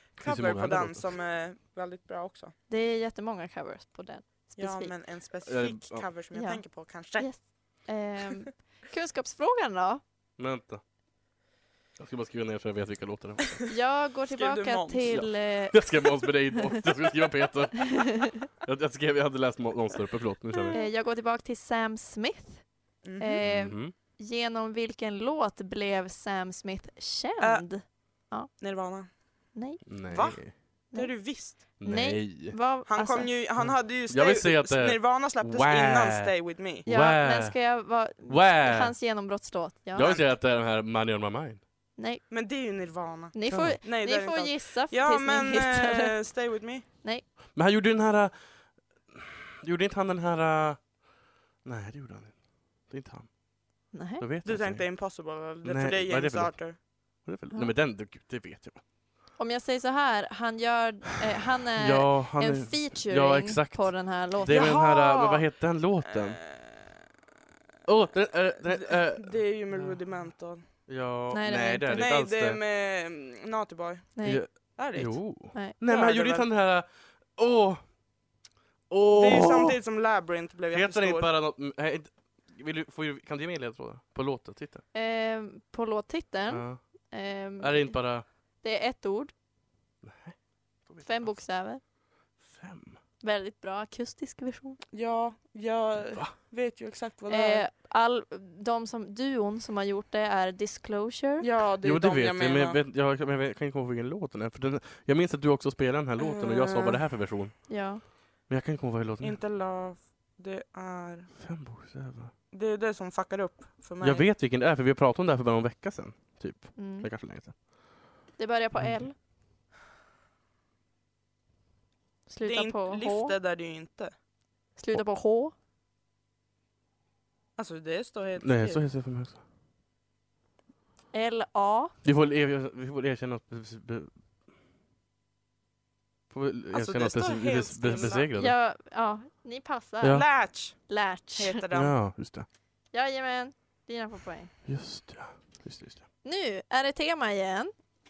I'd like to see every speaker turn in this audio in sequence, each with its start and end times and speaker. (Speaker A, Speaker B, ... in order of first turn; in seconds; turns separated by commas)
Speaker A: 0.1-2.5, Speaker B: 0.2-1.1, Speaker C: 2.7-4.9, Speaker A: 4.6-7.3, Speaker B: 5.4-6.1, Speaker C: 6.3-10.0, Speaker B: 10.4-10.8, Speaker B: 12.0-13.6, Speaker C: 13.7-16.7, Speaker A: 14.3-15.2, Speaker B: 15.1-20.8, Speaker C: 20.7-22.6, Speaker A: 23.0-23.4, Speaker C: 23.2-28.5, Speaker B: 23.4-23.9, Speaker A: 27.4-27.6, Speaker A: 28.6-29.4, Speaker C: 29.5-29.8, Speaker B: 29.9-30.6, Speaker A: 30.1-31.6, Speaker C: 30.9-33.3, Speaker B: 31.8-32.6, Speaker A: 32.9-36.8, Speaker B: 33.6-36.3, Speaker B: 36.8-37.7, Speaker C: 36.9-40.1, Speaker B: 38.3-38.9, Speaker B: 39.9-41.6, Speaker A: 40.0-40.2, Speaker C: 42.0-42.2, Speaker A: 42.3-46.9, Speaker C: 43.3-46.1, Speaker B: 43.5-43.8, Speaker B: 47.5-51.0, Speaker B: 51.6-53.3, Speaker C: 53.9-54.2, Speaker B: 54.2-54.9, Speaker A: 54.4-56.8, Speaker B: 55.6-58.8, Speaker C: 59.4-64.8, Speaker B: 61.8-66.4, Speaker A: 64.4-65.5, Speaker A: 66.1-66.8, Speaker B: 67.8-72.6, Speaker A: 68.7-70.6, Speaker C: 71.3-72.0, Speaker A: 71.9-76.5, Speaker C: 74.2-74.8, Speaker B: 74.2-77.9, Speaker B: 78.9-79.8, Speaker A: 79.1-81.3, Speaker B: 80.7-84.8, Speaker C: 84.9-89.3, Speaker B: 86.5-86.8, Speaker B: 87.6-88.2, Speaker B: 90.0-91.5, Speaker C: 91.0-91.8, Speaker B: 92.4-93.0, Speaker C: 93.2-94.8, Speaker A: 94.9-97.6, Speaker C: 97.3-101.5, Speaker A: 101.4-102.8, Speaker B: 101.8-107.7, Speaker A: 106.2-107.0, Speaker C: 107.7-108.0, Speaker B: 108.5-109.4, Speaker A: 109.2-111.3, Speaker B: 111.4-112.3, Speaker A: 112.5-114.2, Speaker B: 114.0-117.5, Speaker C: 116.8-117.1, Speaker C: 118.4-119.1, Speaker B: 118.8-119.0, Speaker C: 122.3-123.3, Speaker A: 122.4-124.1, Speaker C: 124.8-125.5, Speaker A: 127.6-128.8, Speaker B: 128.4-129.4, Speaker C: 131.1-131.9, Speaker B: 132.0-134.1, Speaker B: 136.3-138.5, Speaker A: 136.7-138.3, Speaker C: 138.4-140.2, Speaker B: 140.0-140.2, Speaker A: 140.1-141.9, Speaker C: 140.9-141.6, Speaker B: 141.7-142.5, Speaker C: 142.9-144.5, Speaker B: 144.7-146.0, Speaker C: 146.2-147.7